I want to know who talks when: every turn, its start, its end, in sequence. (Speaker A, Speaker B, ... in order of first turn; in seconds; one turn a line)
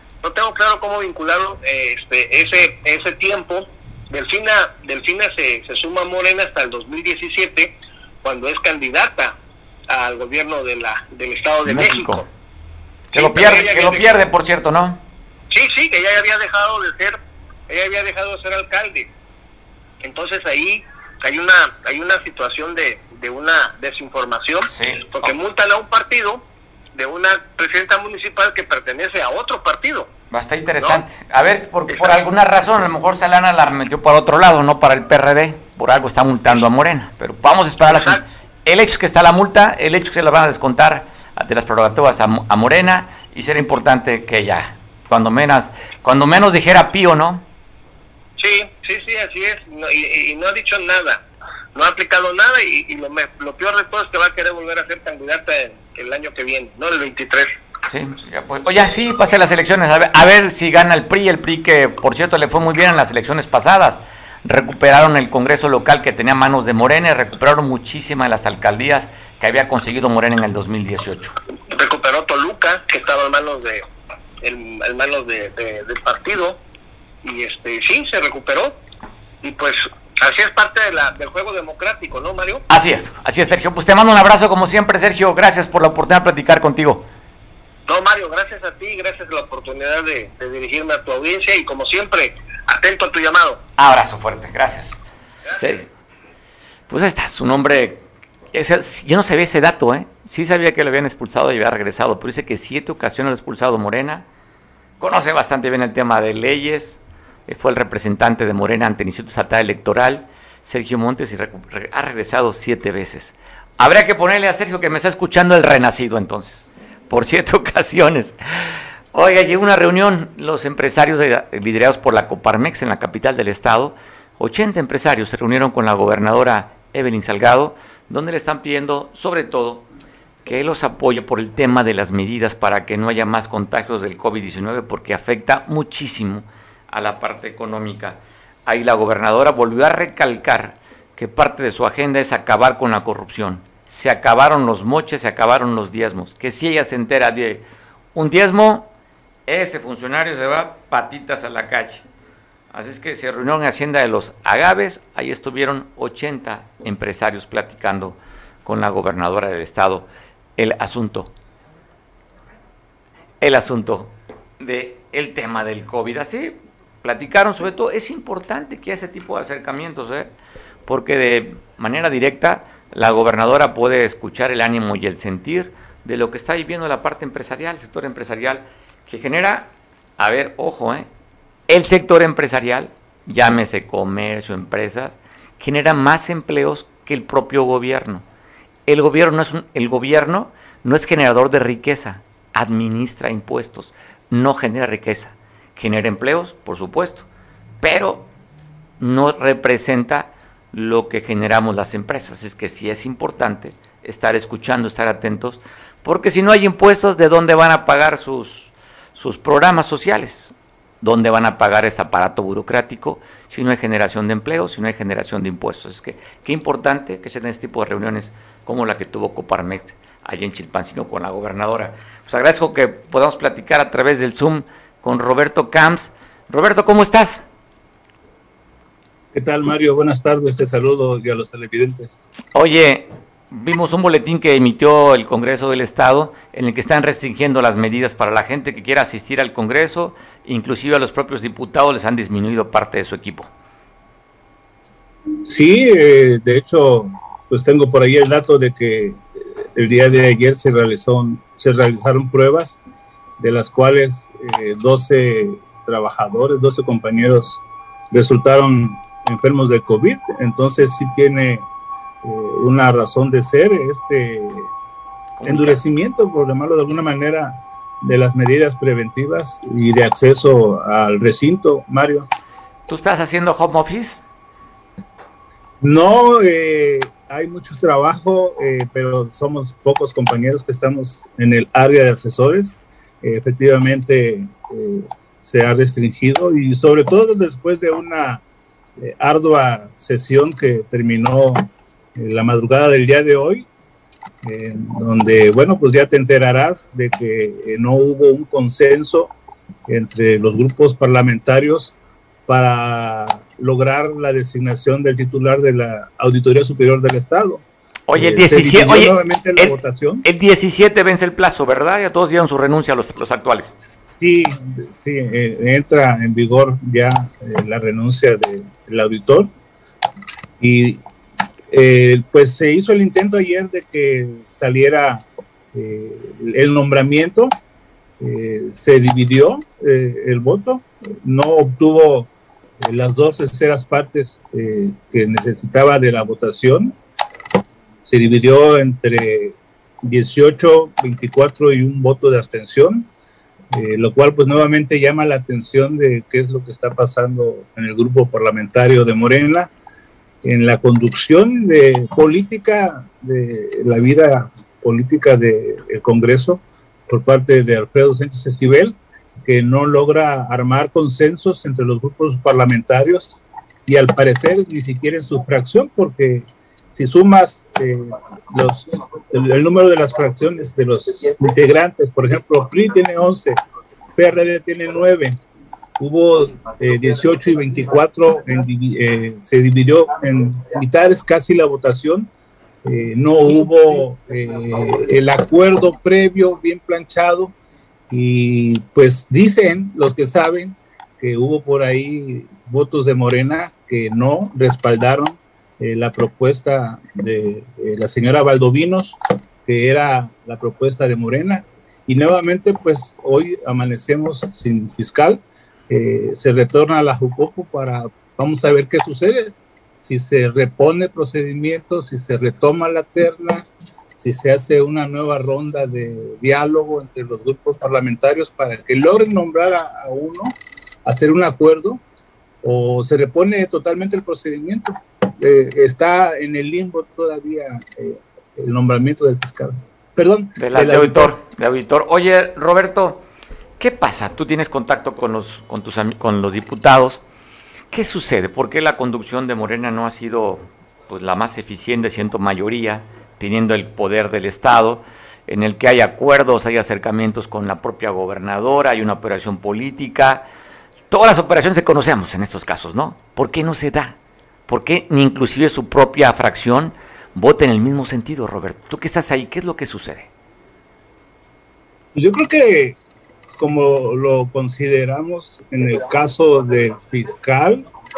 Speaker A: 0.2-9.4
Speaker A: 9.9-12.3
Speaker B: 11.7-12.2
Speaker B: 13.1-15.0
Speaker A: 13.1-14.1
Speaker A: 15.5-17.2
Speaker A: 17.7-19.1
Speaker A: 20.0-26.4
Speaker B: 24.7-25.3
Speaker A: 26.9-30.1
Speaker B: 30.3-47.5
Speaker A: 31.9-32.2
Speaker A: 37.9-38.2
Speaker A: 48.4-51.2
Speaker A: 51.8-57.5
Speaker B: 57.9-71.3
Speaker A: 71.7-73.8
Speaker A: 74.4-76.6
Speaker A: 77.2-78.8
Speaker A: 79.4-82.7
Speaker B: 82.7-87.1
Speaker A: 87.9-93.6
Speaker B: 93.8-95.0
Speaker B: 95.6-95.9
Speaker B: 96.9-104.3
Speaker B: 105.0-129.8
Speaker B: 130.4-148.9
Speaker B: 149.5-152.1
Speaker B: 152.7-161.3
Speaker B: 163.4-170.3
Speaker B: 170.9-181.1
Speaker B: 181.7-188.2
Speaker B: 188.9-197.3
Speaker B: 197.8-198.3
Speaker B: 199.0-227.4
Speaker C: 229.3-232.3
Speaker B: 232.5-243.5
Speaker C: 245.4-249.2
Speaker C: 249.8-252.8
Speaker C: 253.4-261.7
Speaker C: 262.2-264.7
Speaker B: 265.4-265.8
Speaker C: 265.4-272.3
Speaker B: 272.9-274.2
Speaker C: 275.8-288.4
Speaker C: 289.0-293.7
Speaker C: 294.4-299.3
Speaker C: 299.9-301.9
Speaker C: 302.5-310.2
Speaker B: 308.1-313.7
Speaker C: 314.1-319.5
Speaker C: 320.6-321.0
Speaker C: 321.7-327.6
Speaker C: 328.2-332.3
Speaker C: 332.8-337.0
Speaker C: 338.1-343.1
Speaker C: 343.7-349.7
Speaker C: 350.4-373.6
Speaker C: 374.2-375.4
Speaker C: 376.0-382.3
Speaker C: 382.9-387.5
Speaker C: 388.1-422.0
Speaker C: 422.6-431.4
Speaker B: 430.6-433.2
Speaker B: 433.8-437.2
Speaker B: 437.9-450.5
Speaker B: 451.1-454.2
Speaker B: 454.7-460.3
Speaker C: 462.1-463.0
Speaker C: 463.6-467.9